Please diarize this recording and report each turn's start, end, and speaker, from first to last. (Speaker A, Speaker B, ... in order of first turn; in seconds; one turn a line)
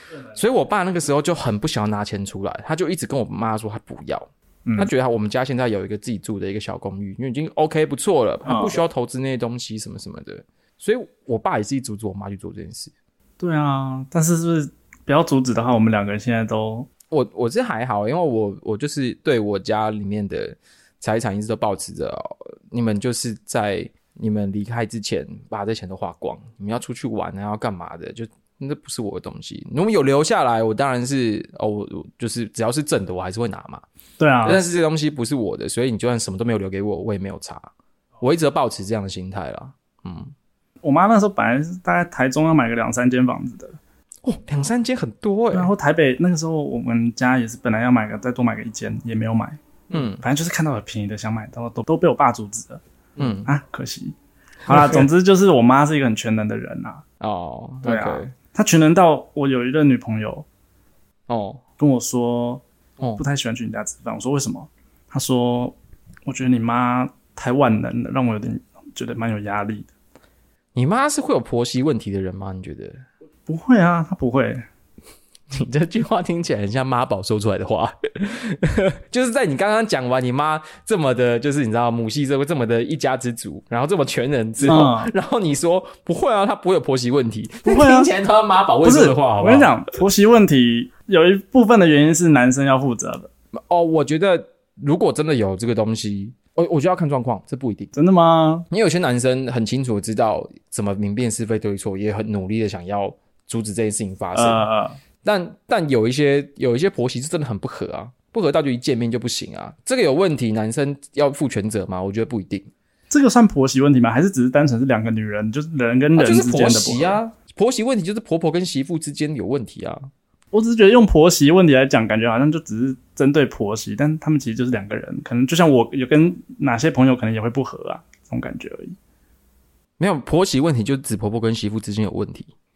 Speaker A: 0.3-12.9
Speaker B: 4.7-4.9
Speaker B: 8.4-8.7
Speaker B: 13.4-16.9
Speaker A: 17.1-33.8
Speaker B: 34.2-34.6
Speaker A: 34.4-37.7
Speaker A: 38.2-40.3
Speaker B: 40.8-43.8
Speaker A: 44.2-45.7
Speaker B: 45.5-49.6
Speaker A: 49.9-50.2
Speaker B: 50.2-52.8
Speaker A: 53.2-53.5
Speaker B: 53.4-54.1
Speaker B: 54.6-57.0
Speaker A: 54.7-55.0
Speaker A: 57.2-58.3
Speaker B: 57.8-60.5
Speaker A: 61.3-61.6
Speaker B: 61.8-62.6
Speaker B: 63.2-69.9
Speaker A: 70.7-73.0
Speaker B: 73.5-74.6
Speaker A: 75.5-89.7
Speaker B: 84.6-85.1
Speaker B: 87.6-88.1
Speaker B: 88.8-93.3
Speaker A: 93.5-97.9
Speaker B: 97.9-98.7
Speaker A: 98.7-104.6
Speaker B: 104.3-105.0
Speaker A: 105.2-112.7
Speaker B: 113.1-117.2
Speaker A: 116.2-120.1
Speaker B: 120.5-128.9
Speaker A: 130.0-132.5